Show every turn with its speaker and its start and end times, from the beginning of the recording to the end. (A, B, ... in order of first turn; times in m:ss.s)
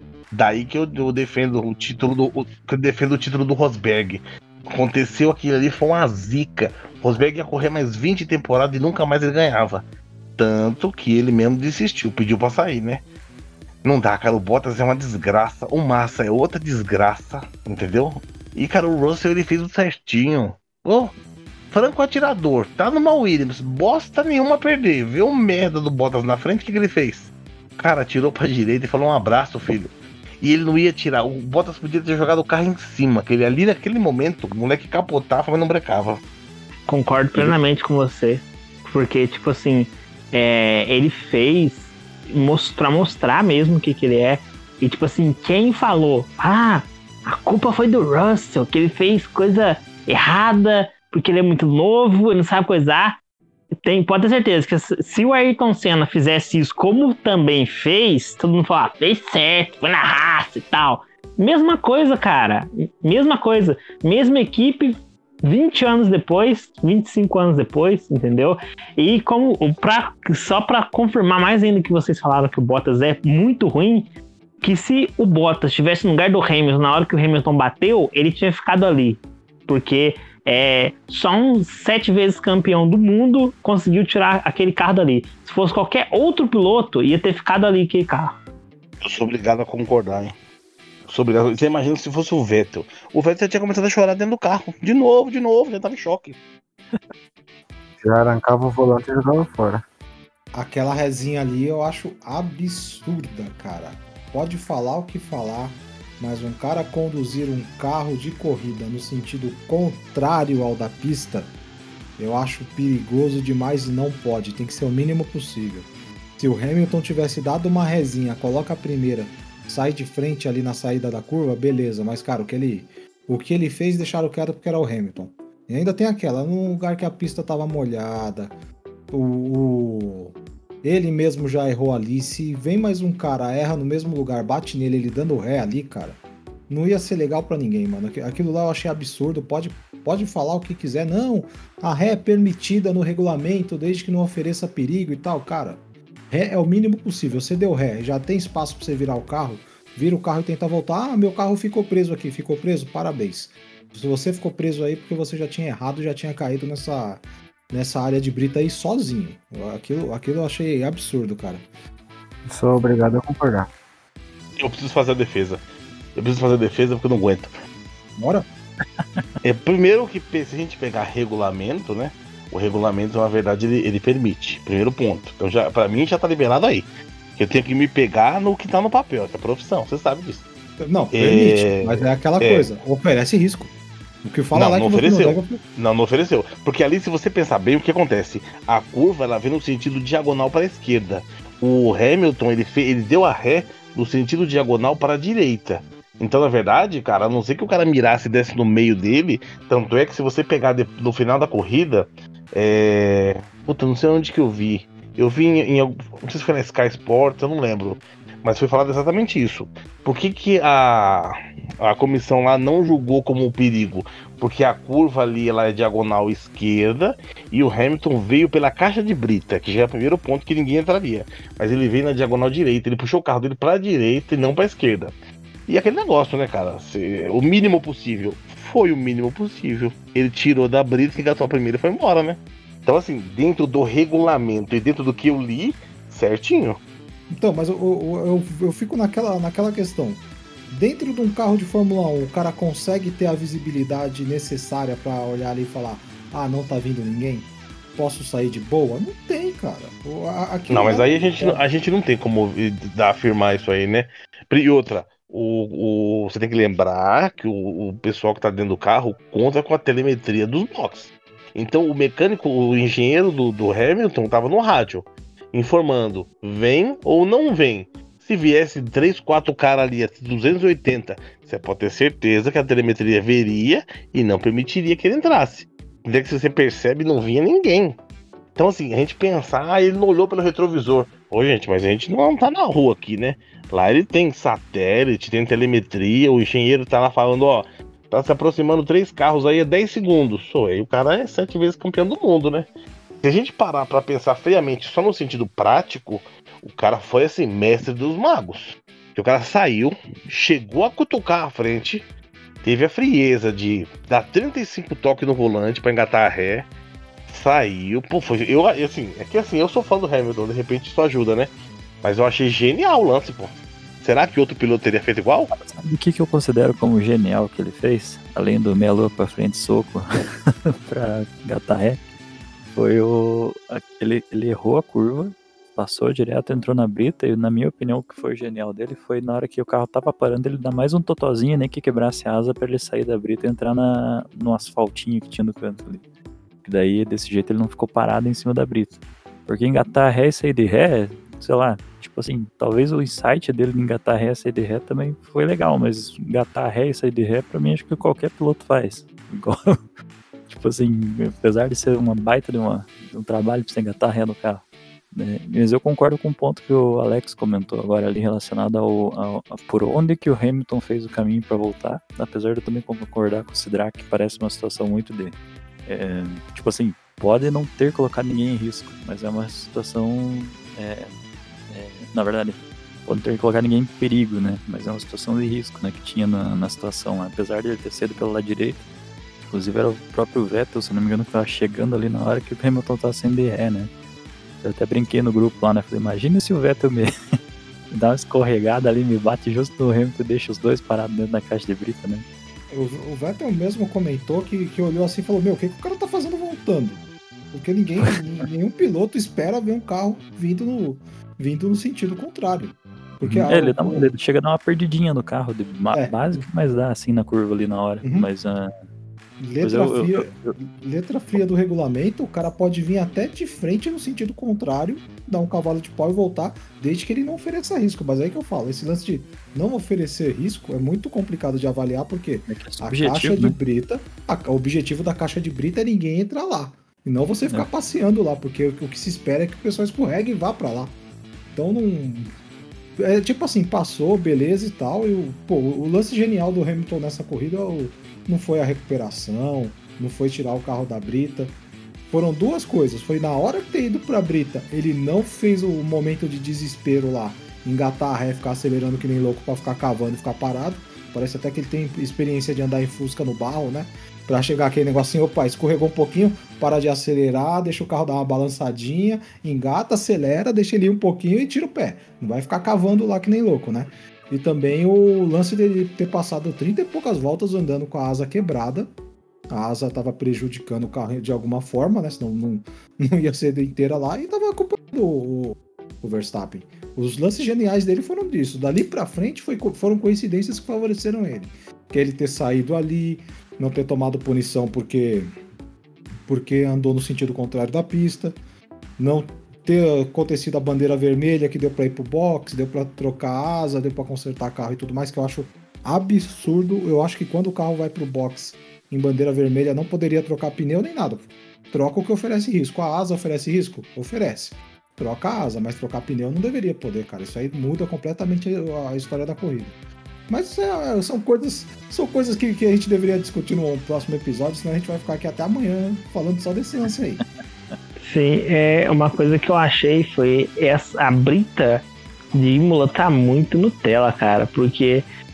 0:00.3-0:09.8 A
0:10.4-0:13.0 A
0:13.8-0:21.1 A
0:21.7-0:36.2 A
0:36.9-0:53.2 B
0:53.8-1:14.1 B
1:14.6-1:28.4 B
1:29.0-1:30.3 A
1:31.1-1:36.4 A
1:38.0-1:39.8 C
1:40.5-1:51.5 D
1:52.2-2:08.5 D
2:09.1-2:41.6 D
2:42.5-2:43.7 C
2:44.6-2:45.6 A
2:46.2-2:47.5 A
2:48.2-2:48.4 D
2:49.4-3:00.5 A
3:00.8-3:05.6 D
3:01.1-3:02.7 A
3:04.5-3:45.2 A
3:45.7-3:56.8 A
3:57.3-4:11.6 D
4:10.7-4:38.0 A
4:38.6-4:52.7 A
4:53.2-5:02.1 A
5:02.6-5:06.7 A
5:07.3-5:11.5 A
5:12.0-5:15.5 A
5:15.6-5:22.0 E
5:22.7-5:36.0 E
5:36.6-5:49.8 E
5:50.5-6:05.4 E
6:05.9-6:11.2 E
6:11.7-6:18.8 E
6:19.5-6:23.9 E
6:24.6-6:27.1 E
6:27.9-6:32.2 E
6:32.7-6:44.1 D
6:43.3-6:48.7 E
6:45.9-6:46.4 D
6:48.0-6:48.3 D
6:49.4-7:11.0 D
6:49.6-6:50.5 E
7:02.5-7:03.6 E
7:11.5-7:12.3 D
7:13.0-7:21.6 D
7:22.1-7:48.9 D
7:49.5-8:05.4 D
8:06.3-8:08.4 D
8:09.0-8:29.8 D
8:30.3-8:37.2 D
8:38.0-8:45.1 B